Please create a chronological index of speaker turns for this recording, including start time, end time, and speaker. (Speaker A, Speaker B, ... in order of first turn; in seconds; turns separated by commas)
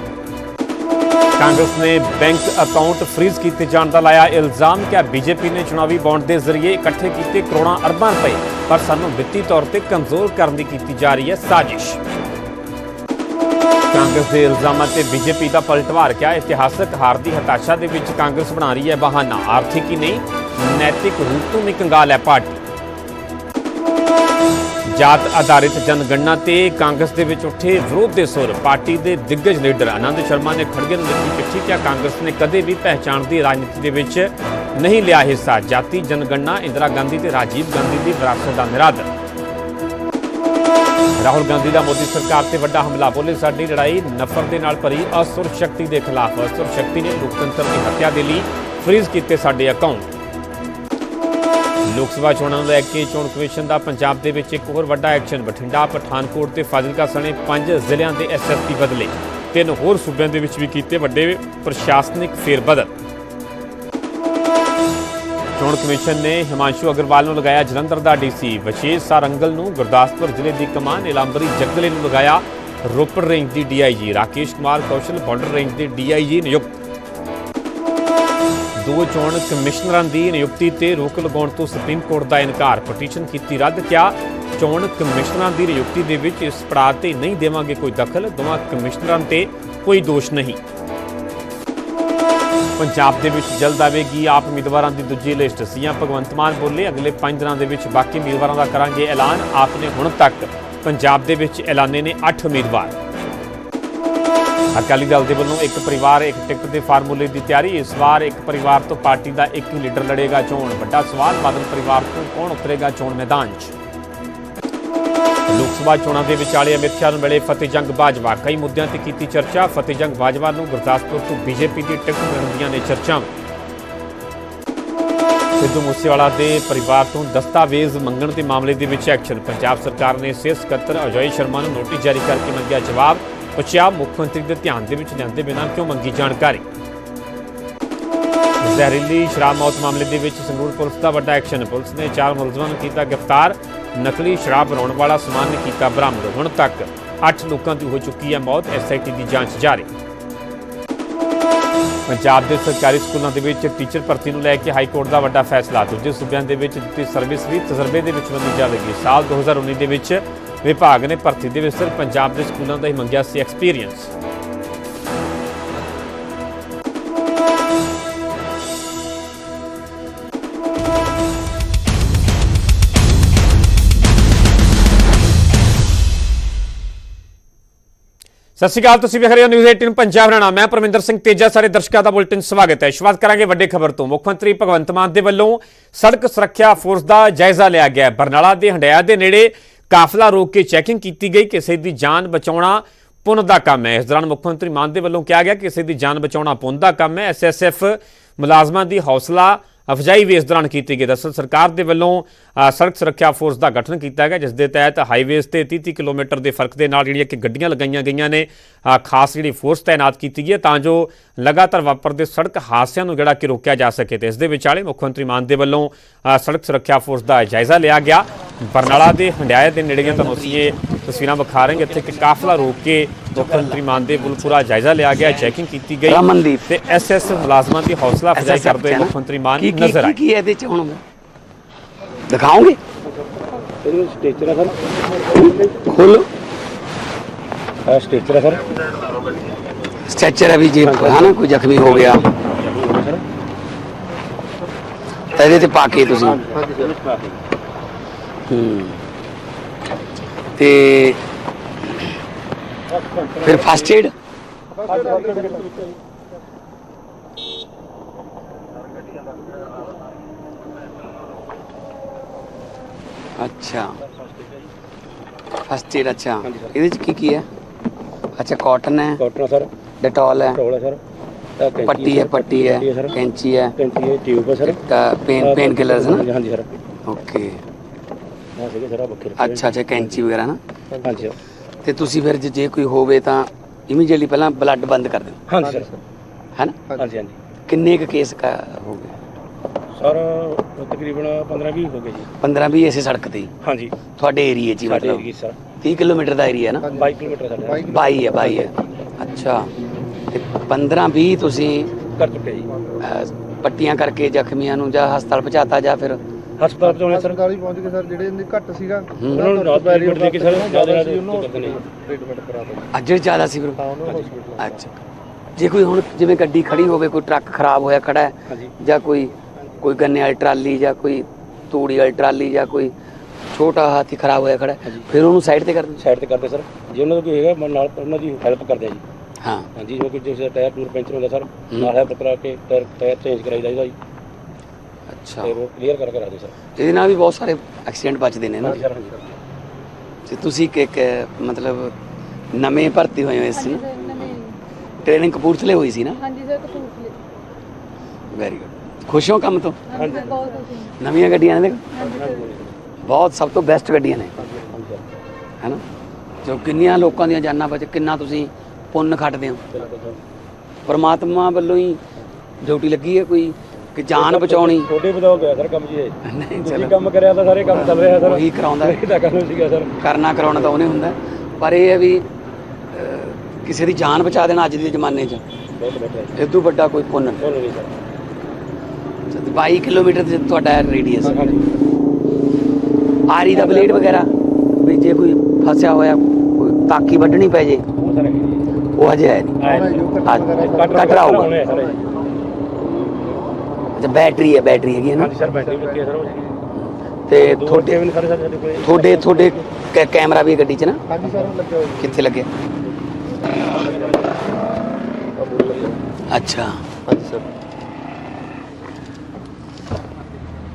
Speaker A: 1.4-12.0, Speaker A: 13.9-22.6, Speaker A: 24.9-39.1, Speaker A: 41.2-50.1, Speaker A: 51.9-62.9, Speaker A: 65.6-76.8, Speaker A: 78.8-90.6, Speaker A: 92.8-102.9, Speaker A: 104.7-113.7, Speaker A: 115.5-123.3, Speaker A: 125.6-136.6, Speaker A: 138.6-149.9, Speaker A: 152.1-164.1, Speaker A: 178.6-230.2, Speaker B: 220.0-220.8, Speaker B: 221.6-222.4, Speaker B: 223.3-224.6, Speaker B: 225.1-227.4, Speaker B: 228.3-231.0, Speaker B: 232.3-232.8, Speaker C: 233.8-235.5, Speaker B: 235.4-236.3, Speaker C: 237.8-238.6, Speaker B: 240.1-242.2, Speaker C: 240.8-243.2, Speaker B: 245.3-246.4, Speaker C: 246.3-247.4, Speaker D: 246.5-246.9, Speaker B: 248.5-249.0, Speaker B: 250.6-251.2, Speaker C: 252.9-254.0, Speaker B: 253.4-254.1, Speaker D: 254.7-255.7, Speaker C: 254.8-255.9, Speaker B: 263.4-264.0, Speaker C: 264.2-264.5, Speaker B: 265.6-267.4, Speaker C: 266.4-266.7, Speaker B: 268.4-269.2, Speaker C: 269.1-269.7, Speaker B: 270.0-270.6, Speaker C: 270.4-271.0, Speaker C: 271.6-273.2, Speaker B: 271.8-273.7, Speaker C: 273.8-274.8, Speaker B: 274.6-276.2, Speaker C: 275.4-276.7, Speaker B: 277.1-277.6, Speaker C: 278.6-280.2, Speaker B: 279.4-280.6, Speaker D: 280.9-281.3, Speaker C: 281.0-281.4, Speaker B: 281.8-285.4, Speaker C: 285.5-285.9, Speaker D: 285.6-286.0, Speaker C: 286.9-287.4, Speaker B: 287.7-289.1, Speaker C: 289.9-292.3, Speaker B: 292.4-293.5, Speaker C: 293.6-293.9, Speaker B: 294.1-295.2, Speaker C: 294.8-295.6, Speaker B: 295.8-296.9, Speaker D: 296.8-298.3, Speaker C: 296.9-298.7, Speaker B: 297.9-299.7, Speaker B: 300.3-301.9, Speaker C: 302.2-302.7, Speaker B: 303.0-306.2, Speaker C: 306.6-307.4, Speaker D: 306.8-312.9, Speaker C: 309.3-311.8, Speaker B: 312.9-314.9, Speaker D: 313.8-314.8, Speaker C: 314.0-314.3, Speaker B: 315.6-322.9, Speaker C: 318.5-318.7, Speaker B: 323.5-326.0, Speaker C: 326.0-329.0, Speaker B: 329.4-329.7, Speaker C: 329.8-333.9, Speaker B: 335.1-335.5, Speaker C: 335.4-336.5, Speaker B: 336.8-338.8, Speaker C: 338.6-339.4, Speaker B: 340.3-341.9, Speaker B: 342.5-344.4, Speaker E: 343.5-344.5, Speaker B: 345.0-346.2, Speaker E: 346.2-347.2, Speaker B: 348.3-350.1, Speaker E: 349.9-351.0, Speaker C: 349.9-350.4, Speaker B: 351.0-351.8, Speaker E: 351.9-352.5, Speaker C: 352.0-352.8, Speaker B: 353.0-354.4, Speaker C: 354.5-355.1, Speaker B: 356.4-359.6, Speaker C: 359.7-360.1, Speaker B: 360.9-362.0, Speaker B: 362.6-364.9, Speaker C: 364.1-370.7, Speaker B: 366.2-366.9, Speaker B: 367.7-369.0, Speaker B: 370.0-372.2, Speaker B: 372.9-375.4, Speaker C: 375.8-376.4, Speaker B: 376.4-377.4, Speaker C: 377.4-377.9, Speaker B: 379.3-381.5, Speaker C: 381.2-381.7, Speaker B: 383.3-387.8, Speaker C: 383.5-384.2, Speaker C: 387.9-388.7, Speaker B: 388.9-389.6, Speaker C: 389.6-392.0, Speaker D: 389.6-392.0, Speaker B: 390.2-391.5, Speaker B: 393.9-395.3, Speaker C: 395.2-396.6, Speaker D: 395.5-396.2, Speaker B: 396.8-398.0, Speaker C: 397.4-399.8, Speaker B: 398.8-401.0, Speaker D: 401.1-402.2, Speaker C: 401.2-401.6, Speaker B: 402.0-402.5, Speaker D: 403.6-404.3, Speaker C: 403.7-404.3, Speaker D: 405.4-406.0, Speaker C: 405.6-405.9, Speaker B: 406.3-406.8, Speaker D: 407.1-407.5